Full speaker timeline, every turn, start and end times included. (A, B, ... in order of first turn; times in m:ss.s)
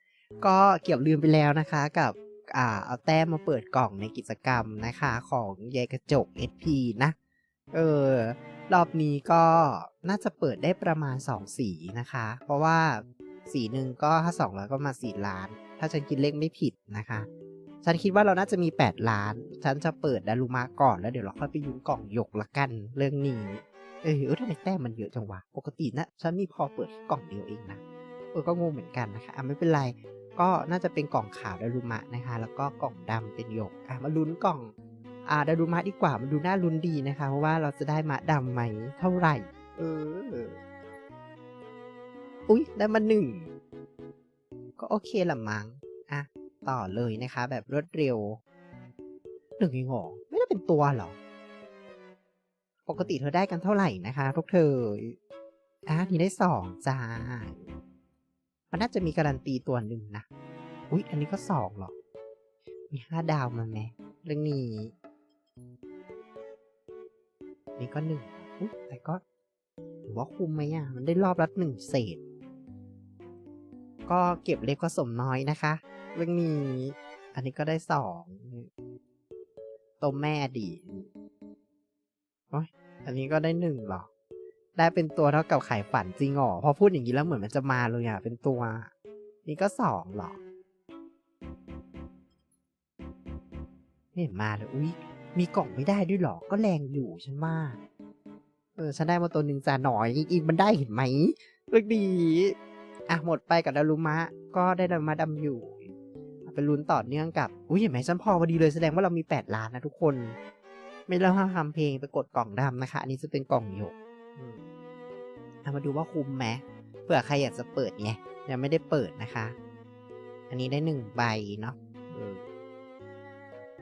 0:00.4-0:07.2 A
0:07.7-0:17.3 A
0:17.8-0:27.8 A
0:28.3-0:34.7 A
0:35.2-0:40.6 A
0:42.5-0:43.5 A
0:44.8-0:48.4 A
0:49.6-0:51.2 A
0:52.8-0:55.2 A
0:55.9-0:57.6 A
0:58.7-1:00.2 A
1:00.9-1:01.9 A
1:02.9-1:04.9 A
1:07.8-1:09.2 A
1:10.0-1:12.2 A
1:14.1-1:18.7 A
1:20.0-1:21.1 A
1:22.5-1:24.1 A
1:24.8-1:28.9 A
1:29.4-1:30.4 A
1:34.1-1:37.8 A
1:38.8-1:42.6 A
1:43.1-1:45.9 A
1:46.4-1:50.4 A
1:51.1-1:54.7 A
1:55.6-1:59.6 A
2:00.5-2:02.4 A